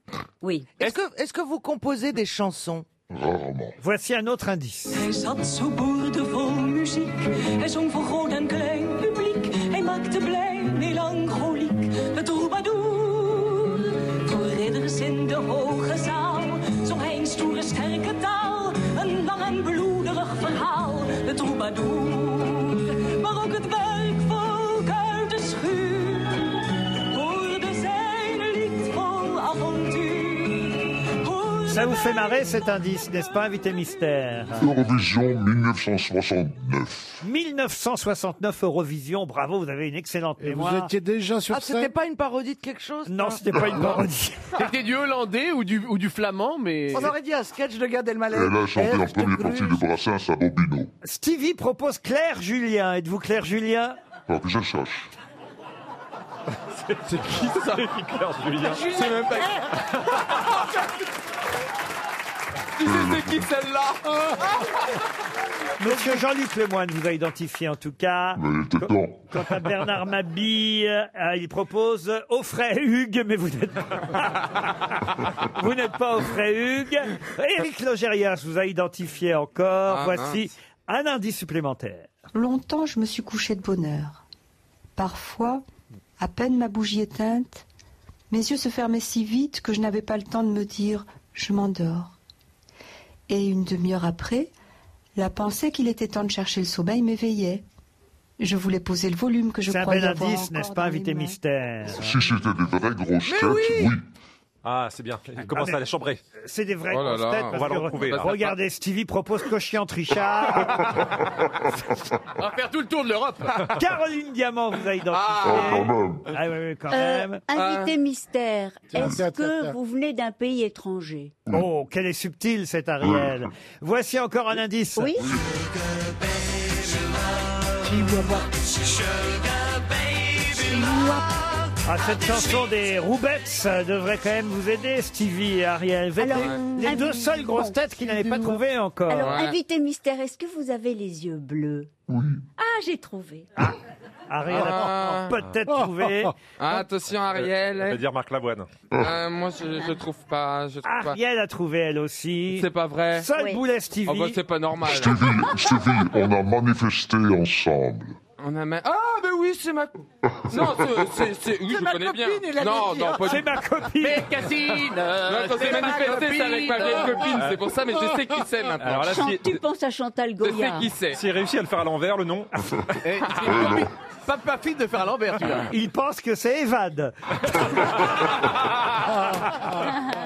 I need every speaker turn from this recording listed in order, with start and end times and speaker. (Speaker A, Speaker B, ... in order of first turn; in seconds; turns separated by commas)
Speaker A: 0.4-0.7, Speaker B: 0.8-2.9, Speaker C: 3.1-3.8, Speaker D: 3.8-5.0, Speaker E: 4.9-32.5, Speaker D: 31.7-34.7, Speaker C: 34.6-37.2, Speaker D: 37.2-40.9, Speaker F: 40.4-41.9, Speaker B: 41.5-43.4, Speaker D: 43.1-44.5, Speaker C: 43.7-44.1, Speaker G: 44.5-47.1, Speaker B: 46.9-49.8, Speaker C: 48.3-50.9, Speaker D: 51.0-54.0, Speaker C: 54.3-55.1, Speaker H: 56.5-58.9, Speaker I: 57.0-58.0, Speaker I: 58.7-60.8, Speaker B: 58.9-59.7, Speaker I: 62.8-64.7, Speaker C: 62.8-63.5, Speaker D: 65.8-82.1, Speaker C: 68.4-69.7, Speaker I: 79.9-80.4, Speaker J: 82.3-84.2, Speaker J: 85.0-85.6, Speaker J: 86.2-87.6, Speaker J: 88.3-92.2, Speaker J: 93.3-94.5, Speaker J: 95.2-97.6, Speaker J: 98.4-101.4, Speaker D: 99.7-102.1, Speaker C: 101.9-104.0, Speaker B: 103.2-103.9, Speaker H: 104.6-106.2, Speaker D: 105.6-105.8, Speaker D: 106.4-111.0, Speaker I: 106.9-108.4, Speaker H: 107.5-108.5, Speaker G: 112.4-113.7, Speaker D: 113.6-117.4, Speaker I: 115.1-115.9, Speaker C: 115.4-116.3, Speaker A: 116.9-121.3, Speaker I: 117.5-117.9, Speaker F: 118.9-119.8, Speaker D: 121.5-125.3, Speaker C: 123.0-123.4, Speaker A: 125.0-125.4, Speaker A: 130.4-131.4, Speaker D: 131.8-139.4, Speaker A: 136.2-141.9, Speaker I: 136.3-136.6, Speaker I: 139.2-139.5, Speaker C: 142.1-142.4, Speaker A: 142.6-143.5, Speaker D: 144.3-146.4, Speaker I: 144.5-145.3, Speaker I: 146.6-148.0, Speaker H: 147.3-148.7, Speaker I: 149.0-151.2, Speaker D: 150.8-154.4, Speaker I: 152.6-153.3, Speaker A: 153.3-153.6, Speaker I: 154.1-155.4, Speaker C: 154.8-158.2, Speaker I: 158.4-163.4, Speaker C: 160.3-160.9, Speaker B: 161.6-163.3, Speaker D: 163.2-164.3, Speaker G: 164.0-167.3, Speaker I: 165.2-169.2, Speaker H: 167.3-167.7, Speaker H: 168.8-169.6, Speaker A: 169.0-170.9, Speaker I: 170.4-171.2, Speaker H: 171.1-172.5, Speaker G: 173.0-175.7, Speaker C: 173.4-173.9, Speaker I: 173.5-173.8, Speaker D: 175.7-178.1